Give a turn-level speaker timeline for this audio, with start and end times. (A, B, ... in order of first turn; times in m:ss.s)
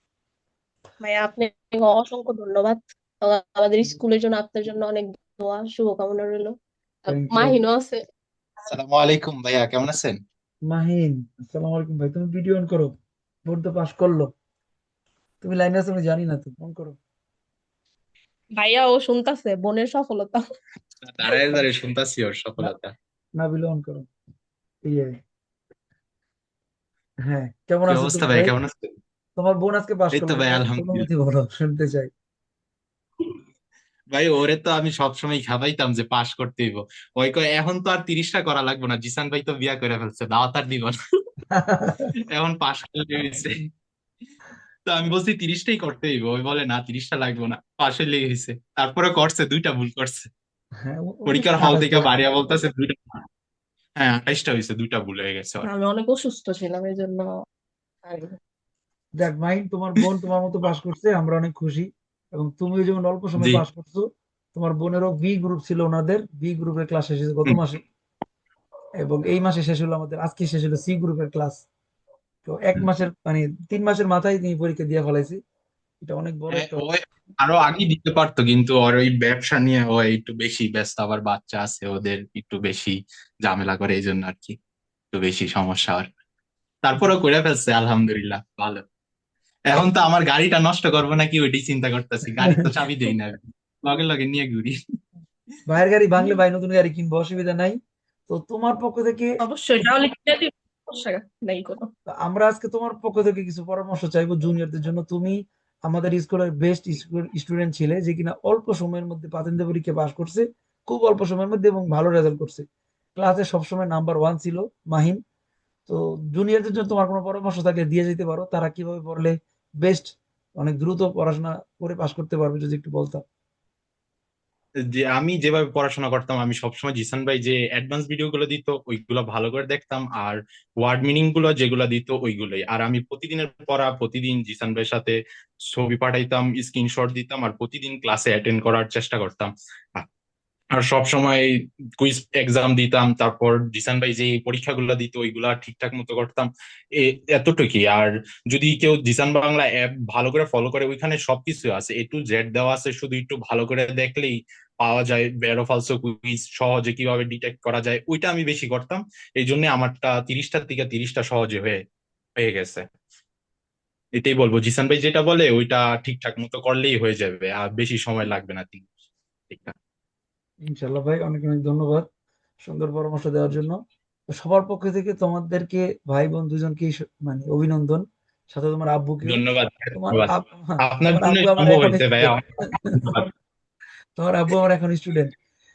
0:01.0-0:06.5 A
0:07.0-0:08.0 A
0:07.1-0:07.6 B
0:08.7-0:10.2 C
0:10.7-0:12.9 B
0:13.5-0:14.3 B
0:15.4-0:17.0 B
0:18.6-0:20.4 A
0:21.0-0:23.0 C
0:23.4-0:24.1 B
0:24.8-0:25.2 B
0:27.3-0:28.5 B
0:27.9-0:28.9 C
0:29.4-0:32.1 B
0:30.1-0:31.1 C
0:34.1-0:41.0 C
0:41.5-0:42.1 B
0:42.2-0:43.6 C
0:44.9-0:50.3 C
0:50.8-0:52.2 B
0:51.3-0:53.2 C
0:54.0-0:55.7 C
0:55.6-0:57.3 A
0:58.1-0:58.4 A
0:59.2-1:07.8 B
1:03.4-1:03.6 C
1:09.0-1:11.6 B
1:12.4-1:15.4 B
1:16.0-1:16.9 B
1:16.5-1:24.6 C
1:25.1-1:26.1 C
1:26.8-1:28.8 C
1:29.7-1:34.8 C
1:35.7-1:37.8 B
1:38.3-1:39.3 B
1:39.4-1:41.9 A
1:42.2-1:52.6 B
1:53.2-1:55.2 B
1:55.9-2:00.1 B
2:00.6-2:03.2 B
2:04.9-2:15.2 C
2:15.7-2:20.1 C
2:20.7-2:21.5 C
2:22.0-2:41.8 C
2:42.4-2:42.8 C
2:44.2-2:48.9 C
2:49.5-2:49.8 C
2:50.7-2:52.1 B
2:52.6-2:53.8 B
2:54.4-2:59.4 B
2:59.2-3:03.2 C
3:00.0-3:03.3 B
3:04.2-3:05.3 B